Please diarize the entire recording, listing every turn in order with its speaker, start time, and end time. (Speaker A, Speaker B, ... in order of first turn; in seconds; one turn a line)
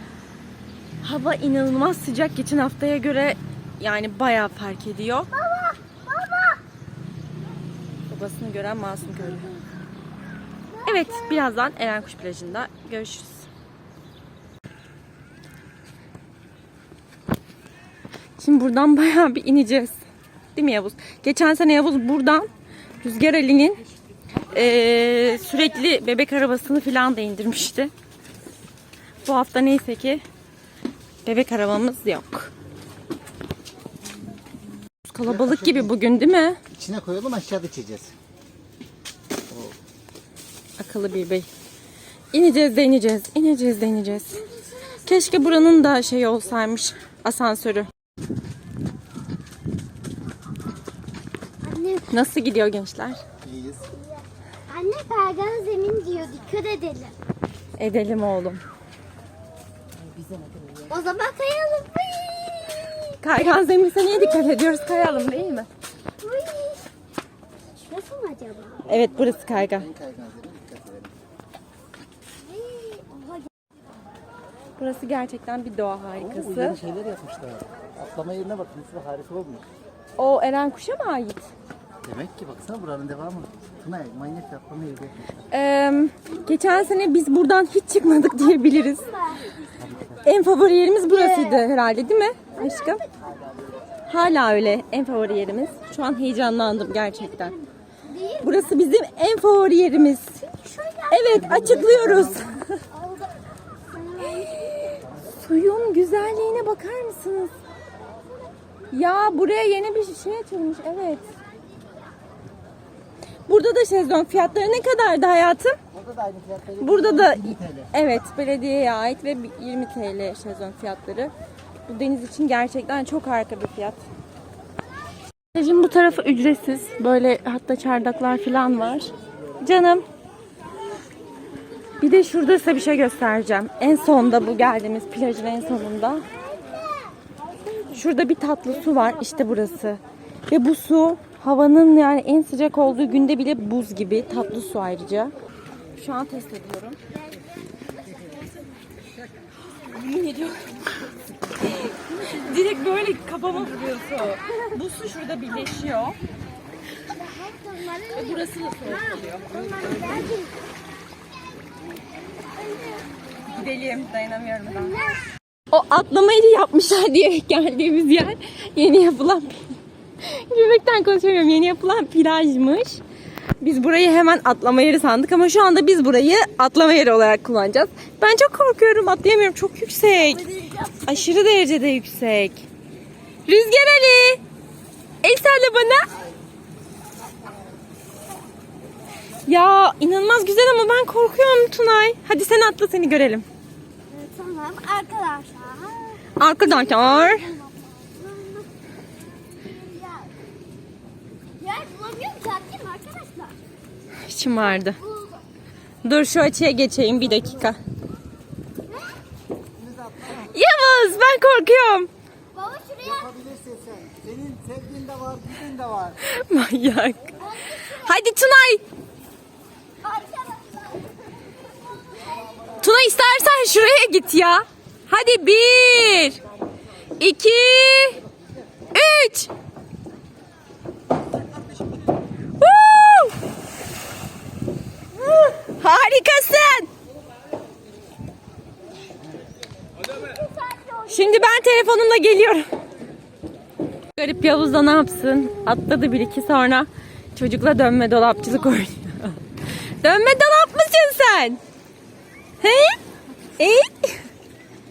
Speaker A: 1.0-5.3
Speaker B: 5.3-6.6
Speaker A: 8.1-9.5
Speaker B: 9.2-9.6
Speaker B: 10.8-11.4
Speaker A: 10.8-13.5
Speaker A: 18.4-20.0
Speaker A: 20.5-22.5
Speaker A: 23.0-23.8
Speaker A: 24.5-27.9
Speaker A: 29.2-30.2
Speaker A: 31.2-32.5
Speaker A: 35.0-36.6
Speaker C: 35.2-35.9
Speaker C: 36.7-38.1
Speaker C: 39.5-39.8
Speaker A: 40.8-41.5
Speaker A: 42.3-44.4
Speaker B: 44.4-45.5
Speaker A: 45.0-47.9
Speaker B: 51.6-52.1
Speaker A: 52.1-53.2
Speaker C: 53.4-53.9
Speaker B: 54.7-57.1
Speaker A: 57.8-58.6
Speaker B: 60.9-63.2
Speaker A: 63.2-65.7
Speaker B: 64.3-64.9
Speaker B: 66.2-66.8
Speaker B: 67.8-68.8
Speaker A: 68.8-69.9
Speaker C: 68.9-71.1
Speaker B: 72.5-73.4
Speaker A: 74.8-76.8
Speaker C: 76.2-79.6
Speaker A: 80.2-81.5
Speaker C: 82.0-85.4
Speaker A: 85.5-89.1
Speaker B: 89.1-89.5
Speaker C: 89.8-90.2
Speaker A: 90.2-93.0
Speaker B: 91.1-91.6
Speaker B: 92.6-93.1
Speaker A: 94.1-97.5
Speaker B: 97.6-98.7
Speaker A: 98.4-100.4
Speaker B: 100.5-101.3
Speaker A: 101.1-102.8
Speaker C: 101.3-102.6
Speaker B: 102.9-103.3
Speaker B: 103.9-104.8
Speaker A: 104.4-107.5
Speaker A: 108.9-111.2
Speaker A: 113.5-115.8
Speaker C: 115.9-117.9
Speaker A: 116.8-121.3
Speaker A: 121.9-124.0
Speaker A: 125.5-130.0
Speaker A: 132.0-136.2
Speaker A: 137.9-145.3
Speaker A: 145.9-147.0
Speaker A: 149.8-150.8
Speaker A: 151.6-156.2
Speaker B: 157.1-160.5
Speaker A: 158.1-159.5
Speaker B: 162.6-163.1
Speaker A: 163.5-164.9
Speaker B: 164.7-165.2
Speaker A: 165.7-173.0
Speaker A: 173.6-180.4
Speaker B: 180.1-181.3
Speaker A: 181.0-182.7
Speaker A: 183.5-184.4
Speaker A: 185.2-186.1
Speaker A: 189.4-193.4
Speaker B: 194.1-198.7
Speaker A: 196.3-197.5
Speaker B: 199.4-200.3
Speaker B: 201.6-203.6
Speaker A: 204.2-205.0
Speaker B: 204.6-205.4
Speaker A: 206.0-207.8
Speaker B: 208.9-209.1
Speaker C: 209.8-210.5
Speaker A: 210.4-212.1
Speaker B: 212.5-213.3
Speaker C: 213.0-216.2
Speaker A: 216.2-218.8
Speaker B: 217.4-218.1
Speaker B: 220.0-221.1
Speaker A: 222.8-226.4
Speaker A: 227.2-228.2
Speaker A: 228.9-229.5
Speaker A: 232.6-233.3
Speaker A: 235.4-236.9
Speaker B: 240.3-241.2
Speaker A: 241.1-242.7
Speaker A: 244.2-249.4
Speaker A: 250.0-251.6
Speaker A: 252.6-253.0
Speaker A: 253.6-254.2